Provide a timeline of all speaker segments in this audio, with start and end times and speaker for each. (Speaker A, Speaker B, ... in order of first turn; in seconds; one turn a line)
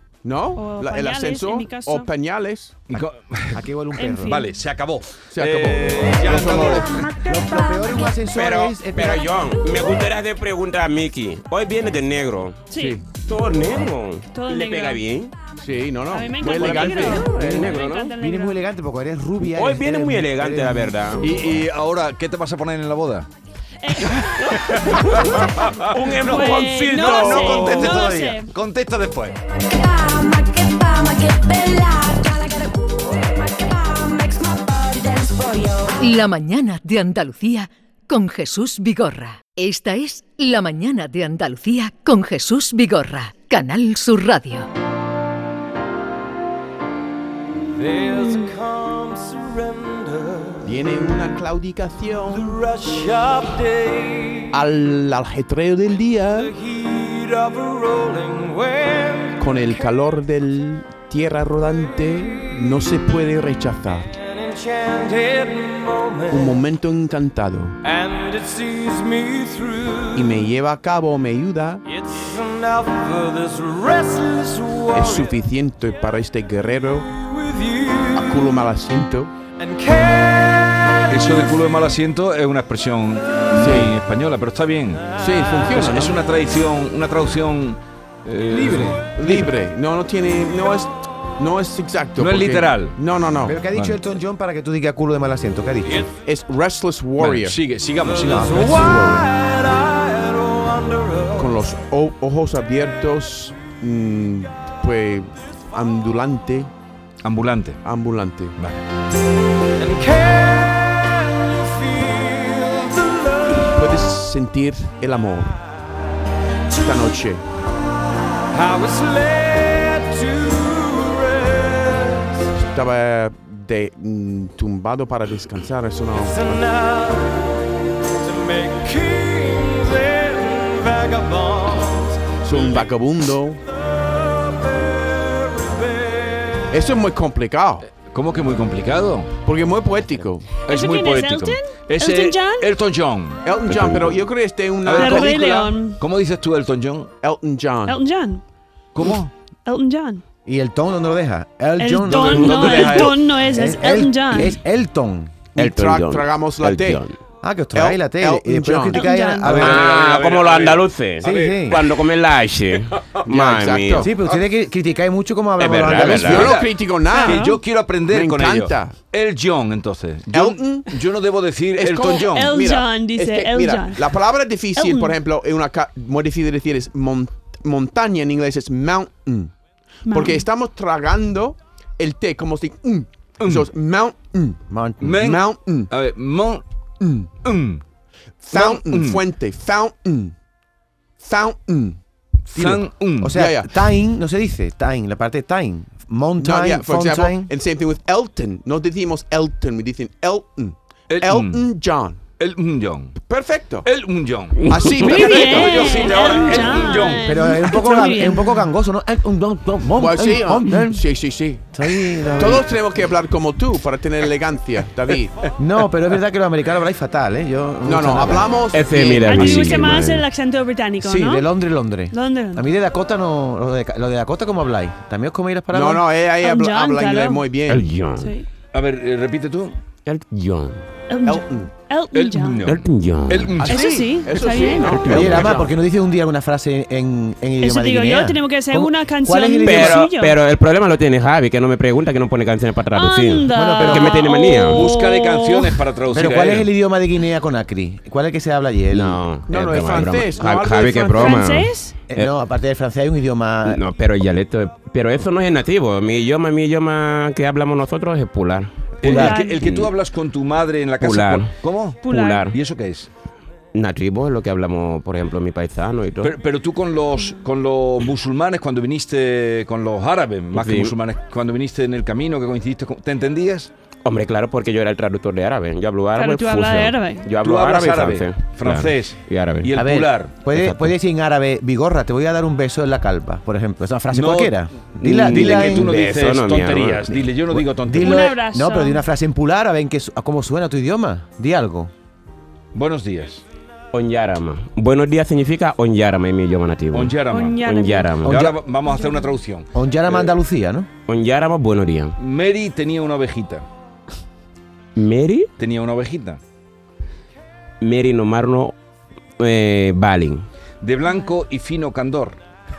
Speaker A: 0.2-2.8
Speaker B: 0.6-2.1
Speaker C: 2.9-3.6
Speaker D: 3.5-4.4
Speaker B: 4.0-4.6
Speaker C: 4.3-7.0
Speaker A: 5.3-7.1
Speaker D: 6.3-9.4
Speaker E: 7.0-8.1
Speaker F: 8.3-15.3
Speaker B: 12.7-13.0
Speaker B: 14.3-15.0
Speaker A: 15.6-17.3
Speaker B: 16.1-18.6
Speaker F: 16.4-18.1
Speaker D: 17.4-21.1
Speaker F: 19.5-21.2
Speaker C: 21.2-23.3
Speaker B: 23.8-28.5
Speaker C: 24.0-29.4
Speaker F: 25.1-28.0
Speaker E: 29.5-36.0
Speaker G: 36.0-44.7
Speaker H: 47.6-51.0
Speaker A: 50.6-52.6
Speaker H: 52.3-54.6
Speaker A: 54.5-56.5
Speaker H: 56.4-59.8
Speaker A: 59.4-64.1
Speaker H: 64.2-66.6
Speaker A: 66.3-67.8
Speaker H: 67.8-70.5
Speaker A: 70.2-71.8
Speaker H: 71.9-75.4
Speaker A: 74.9-77.1
Speaker H: 77.1-78.6
Speaker A: 78.1-79.3
Speaker H: 79.6-81.7
Speaker C: 81.1-85.1
Speaker A: 83.5-83.9
Speaker A: 85.2-86.2
Speaker H: 85.3-85.5
Speaker C: 85.7-89.5
Speaker D: 88.6-89.0
Speaker A: 89.1-93.6
Speaker C: 92.2-93.0
Speaker D: 93.4-96.1
Speaker C: 93.7-94.0
Speaker A: 96.2-97.6
Speaker C: 97.2-99.0
Speaker H: 98.0-101.6
Speaker D: 98.2-99.2
Speaker A: 98.9-99.2
Speaker A: 101.4-106.7
Speaker C: 107.2-107.8
Speaker A: 107.8-108.6
Speaker C: 108.6-108.8
Speaker H: 109.8-114.0
Speaker A: 113.8-115.6
Speaker A: 116.7-117.5
Speaker H: 118.5-122.5
Speaker A: 122.6-126.6
Speaker H: 126.2-132.9
Speaker A: 132.4-133.6
Speaker H: 133.8-136.8
Speaker A: 136.7-137.9
Speaker C: 138.0-139.3
Speaker A: 139.4-140.6
Speaker B: 140.7-142.7
Speaker C: 140.7-144.0
Speaker A: 143.4-145.6
Speaker F: 143.7-144.2
Speaker C: 144.8-147.1
Speaker B: 144.9-146.0
Speaker A: 147.2-148.0
Speaker B: 147.9-148.4
Speaker C: 148.9-149.3
Speaker B: 149.7-150.2
Speaker D: 150.5-155.3
Speaker B: 151.8-154.6
Speaker C: 152.1-153.2
Speaker A: 155.6-157.0
Speaker F: 155.6-157.2
Speaker D: 157.4-159.9
Speaker A: 157.7-159.1
Speaker B: 158.9-159.7
Speaker C: 159.5-161.8
Speaker F: 159.6-164.1
Speaker D: 161.2-161.8
Speaker A: 163.3-164.1
Speaker D: 164.0-166.6
Speaker F: 165.6-166.5
Speaker A: 165.9-169.0
Speaker C: 165.9-172.6
Speaker B: 167.1-167.6
Speaker A: 170.3-171.1
Speaker A: 171.8-179.5
Speaker B: 172.2-174.2
Speaker B: 174.8-175.2
Speaker B: 180.1-180.5
Speaker A: 180.1-185.9
Speaker C: 183.4-183.7
Speaker D: 184.7-185.2
Speaker C: 185.0-186.6
Speaker A: 187.0-187.3
Speaker C: 187.4-187.8
Speaker A: 188.4-190.4
Speaker C: 188.5-189.2
Speaker A: 191.2-192.0
Speaker C: 192.5-193.4
Speaker D: 192.6-197.5
Speaker A: 193.3-193.7
Speaker A: 196.4-202.2
Speaker C: 201.1-201.7
Speaker C: 202.4-203.1
Speaker A: 203.2-203.9
Speaker C: 203.8-207.4
Speaker F: 204.6-205.3
Speaker A: 204.7-206.8
Speaker B: 205.0-208.6
Speaker D: 207.2-211.1
Speaker A: 210.0-211.7
Speaker D: 211.7-212.7
Speaker A: 212.3-215.4
Speaker D: 215.6-218.5
Speaker A: 217.8-220.0
Speaker F: 218.7-220.2
Speaker B: 219.3-221.5
Speaker D: 221.0-226.1
Speaker B: 222.1-222.7
Speaker A: 225.7-227.9
Speaker B: 226.4-227.5
Speaker F: 227.7-228.3
Speaker B: 228.2-228.5
Speaker C: 228.7-229.8
Speaker F: 230.1-230.8
Speaker B: 231.1-232.7
Speaker A: 231.3-231.7
Speaker C: 232.1-233.9
Speaker F: 232.7-233.6
Speaker A: 233.6-235.7
Speaker B: 233.7-235.1
Speaker F: 234.8-235.6
Speaker D: 235.1-240.1
Speaker B: 237.6-240.4
Speaker F: 239.6-244.9
Speaker B: 242.9-245.8
Speaker D: 243.5-244.3
Speaker C: 244.7-246.7
Speaker D: 246.1-249.2
Speaker F: 248.9-252.3
Speaker A: 249.5-251.4
Speaker B: 251.2-251.9
Speaker D: 252.1-253.8
Speaker F: 253.7-259.9
Speaker C: 259.0-263.1
Speaker B: 259.1-259.6
Speaker F: 261.0-261.5
Speaker B: 262.0-262.6
Speaker F: 262.1-262.5
Speaker F: 263.7-266.3
Speaker C: 266.2-273.7
Speaker F: 270.5-270.9
Speaker F: 274.1-279.7
Speaker B: 276.2-277.3
Speaker C: 277.4-280.4
Speaker D: 279.8-286.0
Speaker F: 280.5-280.9
Speaker C: 284.1-284.6
Speaker F: 285.0-287.1
Speaker C: 285.2-288.3
Speaker D: 287.5-291.9
Speaker B: 288.0-289.0
Speaker C: 292.7-293.4
Speaker F: 293.9-298.5
Speaker C: 296.9-297.6
Speaker B: 297.3-298.1
Speaker C: 298.2-299.7
Speaker D: 298.3-298.5
Speaker B: 298.9-299.3
Speaker D: 299.7-300.9
Speaker F: 301.1-302.2
Speaker C: 302.2-303.6
Speaker F: 305.0-305.5
Speaker C: 305.6-306.4
Speaker F: 307.8-308.7
Speaker F: 309.4-310.5
Speaker C: 310.8-312.4